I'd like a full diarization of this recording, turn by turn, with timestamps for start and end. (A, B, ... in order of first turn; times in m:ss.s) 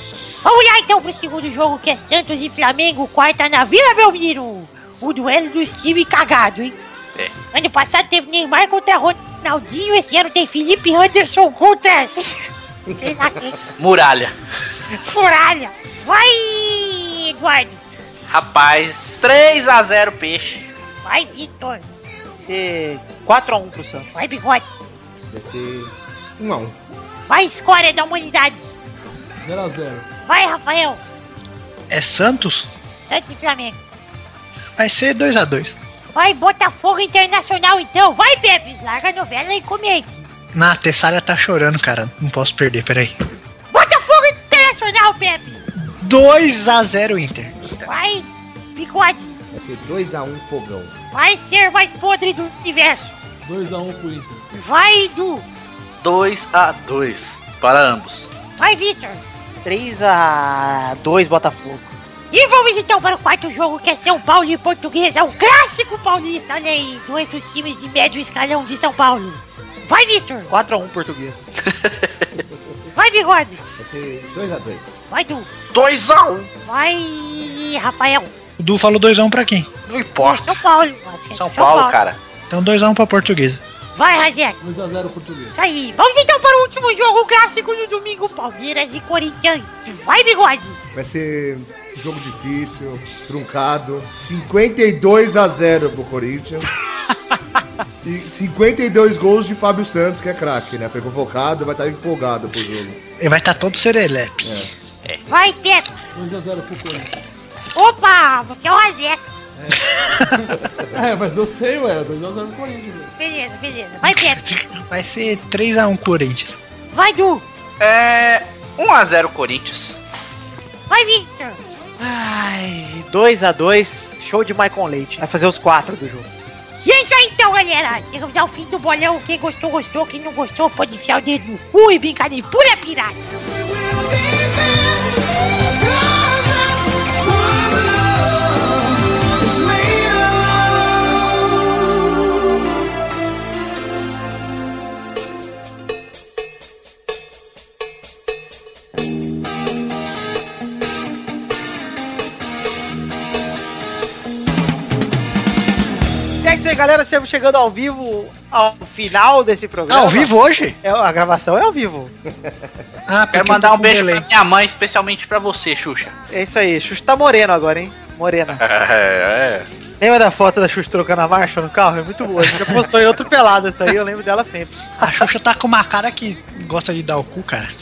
0:00.4-0:06.8 A
0:07.5-0:12.4 A
0:12.9-0:13.2 B
0:13.0-0:13.6 A
0:13.8-0:14.3 C
0:14.9-0:17.8 A
0:18.3-0:20.7 C
0:21.0-0:21.9 A
0:22.4-0:24.1 D
0:24.1-0:24.6 A
0:25.3-0:26.8 B
0:27.3-0:28.6 A
0:29.4-0:30.1 E
0:30.2-0:31.0 A
0:31.9-0:32.7 F
0:33.1-0:33.8 A
0:34.8-0:35.8 F
0:36.1-0:40.3 A
0:40.5-0:43.1 F
0:43.7-0:45.6 A
0:46.0-0:47.6 F
0:47.8-0:49.4 A
0:49.5-0:50.9 B
0:51.1-0:53.1 A
0:53.4-0:54.5 E
0:54.5-0:55.4 A
0:56.0-0:58.3 C
0:58.6-0:59.2 A
0:59.6-1:01.9 D
1:02.3-1:10.5 A
1:10.5-1:11.4 D
1:11.6-1:12.3 C
1:12.9-1:13.6 A
1:13.8-1:15.0 B
1:15.1-1:15.5 A
1:15.7-1:16.5 C
1:16.6-1:18.3 A
1:18.6-1:19.7 F
1:19.9-1:20.6 C
1:20.2-1:22.0 A
1:21.4-1:22.2 C
1:22.5-1:23.6 F
1:23.9-1:24.6 A
1:24.6-1:25.6 E
1:25.5-1:30.8 A
1:30.9-1:36.7 B
1:38.0-1:43.0 B
1:43.2-1:44.7 F
1:44.4-1:44.7 B
1:45.3-1:46.0 A
1:46.1-1:47.2 E
1:47.7-1:49.2 A
1:49.6-1:53.1 E
1:49.9-1:50.2 F
1:53.2-1:54.4 A
1:54.0-1:56.6 F
1:56.9-1:57.4 A
1:57.8-2:00.0 C
2:00.9-2:01.6 A
2:02.0-2:06.3 D
2:06.8-2:13.3 A
2:36.4-2:42.1 D
2:39.9-2:40.8 F
2:42.2-2:42.9 B
2:43.1-2:44.2 F
2:43.3-2:46.1 C
2:46.3-2:48.6 D
2:48.6-2:49.7 C
2:50.0-2:55.2 D
2:55.0-2:57.7 F